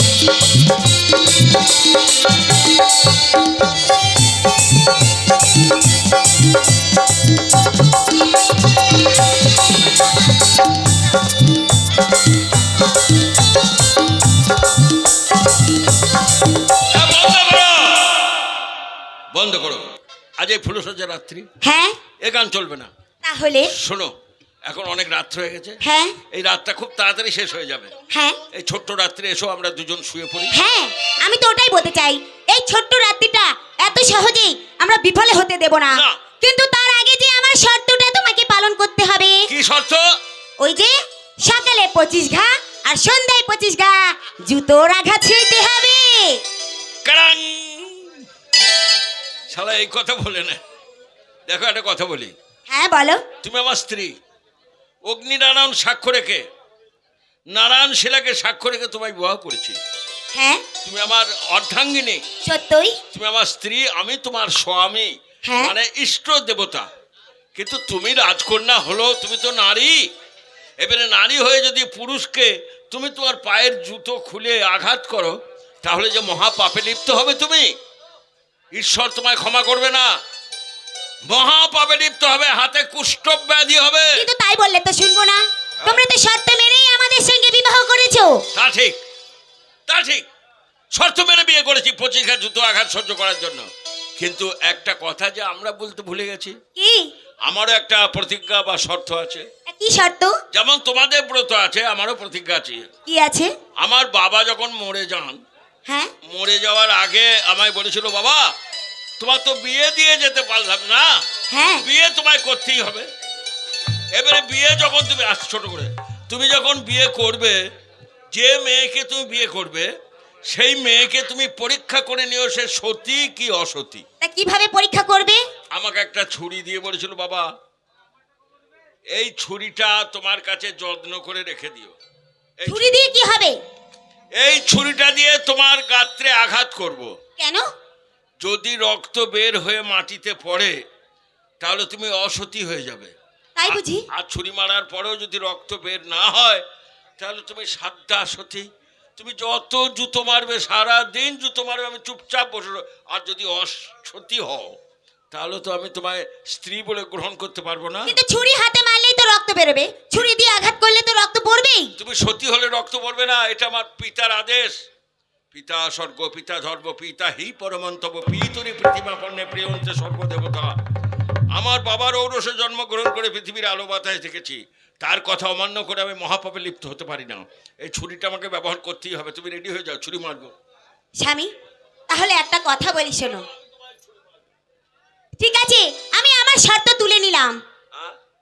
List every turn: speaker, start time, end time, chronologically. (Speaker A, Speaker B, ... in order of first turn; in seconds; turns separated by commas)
Speaker A: 16.9-18.3, Speaker A: 19.3-19.8, Speaker A: 20.4-21.5, Speaker B: 21.6-22.0, Speaker A: 22.2-22.9, Speaker B: 23.2-23.7, Speaker A: 23.8-24.1, Speaker A: 24.6-25.8, Speaker B: 25.8-26.2, Speaker A: 26.3-27.9, Speaker B: 28.1-28.4, Speaker A: 28.5-30.5, Speaker B: 30.5-39.5, Speaker A: 35.9-36.2, Speaker A: 39.5-40.0, Speaker B: 40.6-46.4, Speaker A: 47.0-48.2, Speaker A: 49.5-50.6, Speaker A: 51.5-52.3, Speaker B: 52.7-53.2, Speaker A: 53.4-54.1, Speaker A: 55.0-56.4, Speaker A: 57.5-59.8, Speaker B: 60.3-60.6, Speaker A: 60.8-62.2, Speaker B: 62.4-63.0, Speaker A: 63.1-66.9, Speaker B: 65.4-65.7, Speaker A: 67.5-70.1, Speaker A: 70.8-77.7, Speaker A: 78.7-80.1, Speaker A: 81.3-84.3, Speaker B: 84.1-88.4, Speaker A: 88.5-89.0, Speaker A: 89.9-90.2, Speaker A: 90.9-93.7, Speaker A: 94.2-96.5, Speaker B: 96.8-97.1, Speaker A: 97.5-99.5, Speaker B: 99.7-100.4, Speaker A: 100.5-102.9, Speaker B: 103.1-103.5, Speaker A: 103.8-105.4, Speaker B: 105.9-106.1, Speaker A: 106.3-108.5, Speaker A: 109.2-111.1, Speaker B: 111.5-111.8, Speaker A: 111.8-113.1, Speaker A: 114.1-117.6, Speaker A: 118.3-119.9, Speaker A: 120.5-124.0, Speaker B: 124.2-125.4, Speaker A: 125.7-127.5, Speaker A: 129.1-131.9, Speaker A: 132.6-132.9, Speaker B: 132.7-133.6, Speaker A: 134.4-137.1, Speaker B: 137.4-137.7, Speaker A: 138.4-140.7, Speaker A: 141.6-143.1, Speaker B: 143.6-144.0, Speaker A: 143.7-146.6, Speaker A: 147.2-154.7, Speaker A: 155.3-158.1, Speaker B: 158.1-161.9, Speaker A: 162.0-164.7, Speaker A: 165.5-170.7, Speaker A: 171.5-180.5, Speaker B: 181.2-181.5, Speaker B: 182.1-183.4, Speaker A: 183.7-184.4, Speaker B: 185.4-187.6